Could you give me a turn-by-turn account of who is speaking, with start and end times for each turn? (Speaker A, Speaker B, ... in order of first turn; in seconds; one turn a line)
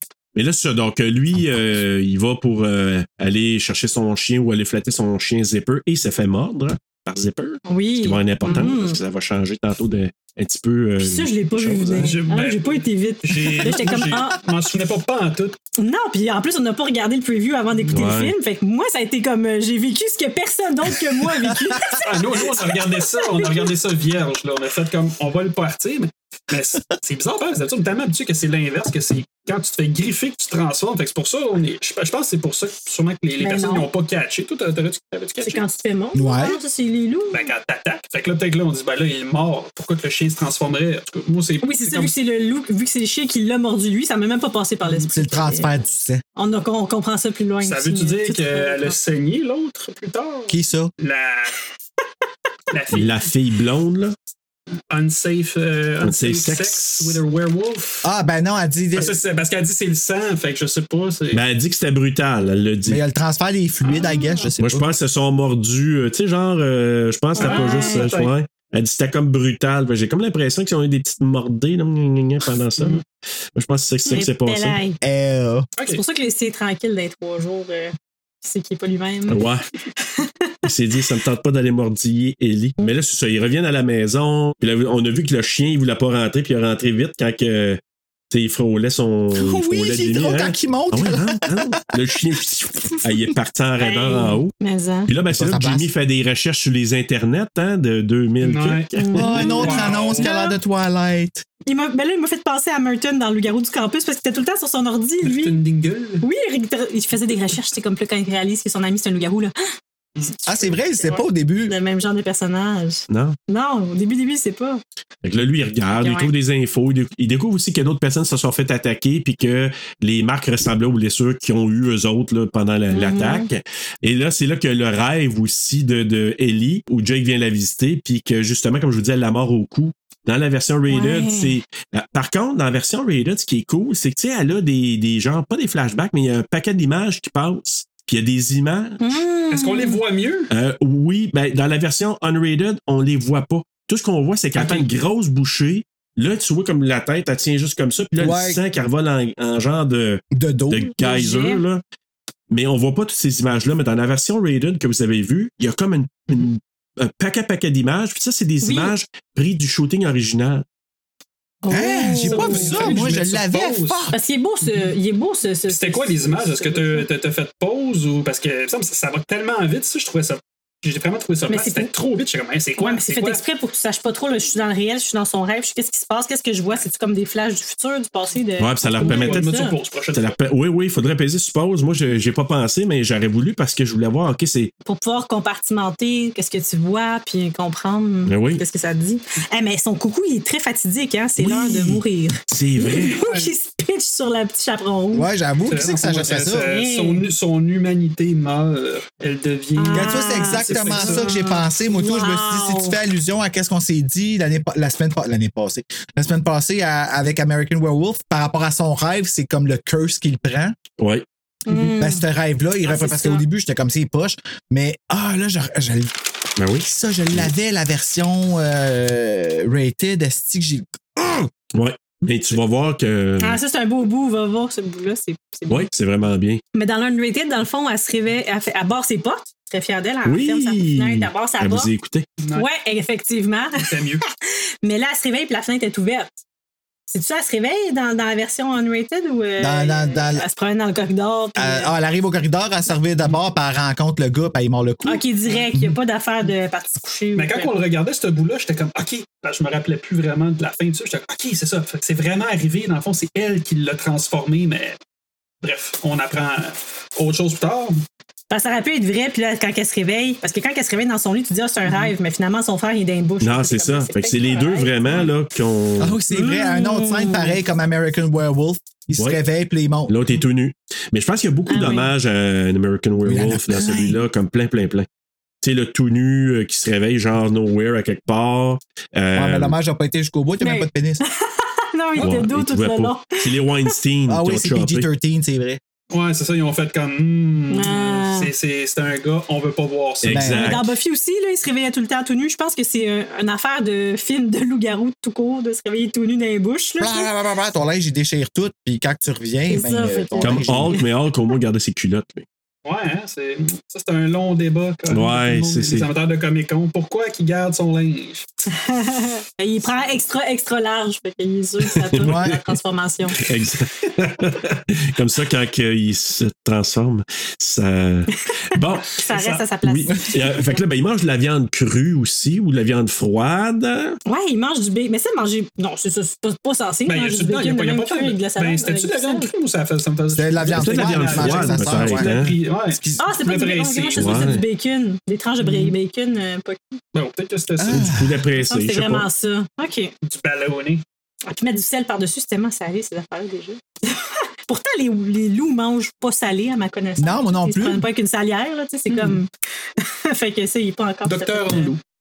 Speaker A: 0.3-12.2
Speaker B: 7.7-9.0
Speaker C: 8.4-8.7
Speaker B: 11.0-14.4
Speaker C: 12.0-15.6
Speaker B: 15.8-22.7
Speaker A: 17.9-18.3
Speaker D: 21.8-22.0
Speaker C: 21.9-35.6
Speaker B: 23.3-23.7
Speaker B: 33.4-33.9
Speaker B: 35.4-37.5
Speaker D: 36.1-36.6
Speaker C: 37.3-42.1
Speaker B: 41.6-45.7
Speaker D: 45.1-46.2
Speaker B: 46.4-49.0
Speaker C: 47.6-51.6
Speaker D: 50.5-50.9
Speaker C: 52.7-53.3
Speaker A: 52.9-54.1
Speaker C: 54.9-58.0
Speaker A: 56.0-57.2
Speaker D: 58.0-59.2
Speaker C: 59.0-61.4
Speaker A: 61.3-63.0
Speaker D: 62.9-64.9
Speaker B: 63.9-64.4
Speaker A: 64.6-73.0
Speaker B: 67.3-68.1
Speaker C: 67.4-68.3
Speaker A: 73.5-74.8
Speaker B: 74.0-75.0
Speaker D: 75.0-75.7
Speaker B: 75.9-79.5
Speaker A: 79.3-79.6
Speaker B: 80.0-80.5
Speaker A: 80.6-87.8
Speaker A: 88.3-94.5
Speaker D: 89.3-91.8
Speaker D: 92.3-93.2
Speaker B: 93.8-95.1
Speaker A: 95.1-99.5
Speaker D: 95.3-95.9
Speaker C: 98.4-100.3
Speaker B: 98.9-100.5
Speaker D: 99.2-101.4
Speaker B: 101.7-105.6
Speaker C: 105.2-106.2
Speaker B: 106.2-114.8
Speaker D: 110.5-111.7
Speaker A: 113.1-113.4
Speaker A: 115.2-139.2
Speaker B: 116.0-116.3
Speaker B: 122.9-123.5
Speaker B: 130.9-131.6
Speaker B: 139.0-140.0
Speaker C: 139.5-140.5
Speaker A: 140.5-151.8
Speaker D: 148.1-148.6
Speaker D: 150.3-150.9
Speaker B: 151.0-151.6
Speaker A: 152.5-160.6
Speaker B: 158.6-159.0
Speaker B: 161.6-163.0
Speaker D: 161.7-164.2
Speaker C: 162.2-164.1
Speaker B: 164.1-167.1
Speaker C: 164.6-164.9
Speaker C: 165.7-173.4
Speaker B: 171.5-171.9
Speaker B: 172.8-179.7
Speaker A: 178.6-179.5
Speaker C: 179.0-180.4
Speaker A: 180.1-184.7
Speaker B: 184.8-195.3
Speaker A: 188.2-188.6
Speaker A: 191.4-191.9
Speaker A: 192.5-193.2
Speaker C: 193.0-193.5
Speaker D: 195.1-196.7
Speaker C: 195.7-201.3
Speaker B: 196.6-197.3
Speaker B: 199.8-203.0
Speaker D: 199.9-210.8
Speaker A: 211.0-211.9
Speaker B: 211.7-212.2
Speaker D: 211.9-216.1
Speaker B: 212.8-213.4
Speaker A: 216.6-217.5
Speaker D: 216.8-221.5
Speaker A: 221.7-223.6
Speaker B: 223.4-225.9
Speaker A: 225.7-226.6
Speaker B: 226.7-231.9
Speaker A: 230.2-232.3
Speaker C: 232.4-232.7
Speaker B: 232.5-233.9
Speaker C: 233.8-234.2
Speaker B: 234.8-236.3
Speaker B: 237.1-241.9
Speaker D: 239.6-240.4
Speaker D: 241.6-246.0
Speaker B: 245.0-247.7
Speaker C: 247.3-255.0
Speaker C: 255.6-258.0
Speaker B: 258.5-265.3
Speaker C: 261.9-262.1
Speaker A: 263.4-266.2
Speaker D: 266.0-270.4
Speaker B: 266.3-267.6
Speaker A: 270.1-275.1
Speaker B: 271.7-272.1
Speaker D: 273.2-274.2
Speaker A: 275.6-279.8
Speaker D: 279.3-281.2
Speaker B: 280.6-283.5
Speaker A: 282.1-285.1
Speaker D: 284.3-285.8
Speaker C: 286.1-290.6
Speaker B: 287.7-288.5
Speaker A: 290.2-290.9
Speaker D: 290.3-290.8
Speaker B: 290.6-297.3
Speaker D: 297.0-301.0
Speaker B: 299.7-301.0
Speaker A: 300.4-302.4
Speaker C: 302.8-308.5
Speaker A: 305.1-306.1
Speaker B: 308.7-313.4
Speaker A: 312.1-312.4
Speaker D: 312.2-312.6
Speaker A: 313.4-319.1
Speaker B: 319.2-320.8
Speaker C: 319.3-319.6
Speaker A: 319.8-324.2
Speaker B: 324.3-329.5
Speaker C: 327.1-334.6
Speaker D: 330.3-333.4
Speaker A: 330.7-332.5
Speaker B: 333.2-337.0
Speaker A: 334.2-334.6
Speaker C: 335.6-335.9
Speaker C: 337.1-338.1
Speaker D: 337.8-338.4
Speaker A: 337.9-339.3
Speaker B: 338.6-340.1
Speaker C: 340.2-341.0
Speaker B: 341.4-349.5
Speaker D: 347.2-348.1
Speaker C: 349.1-349.4
Speaker B: 350.0-351.9
Speaker C: 351.2-352.0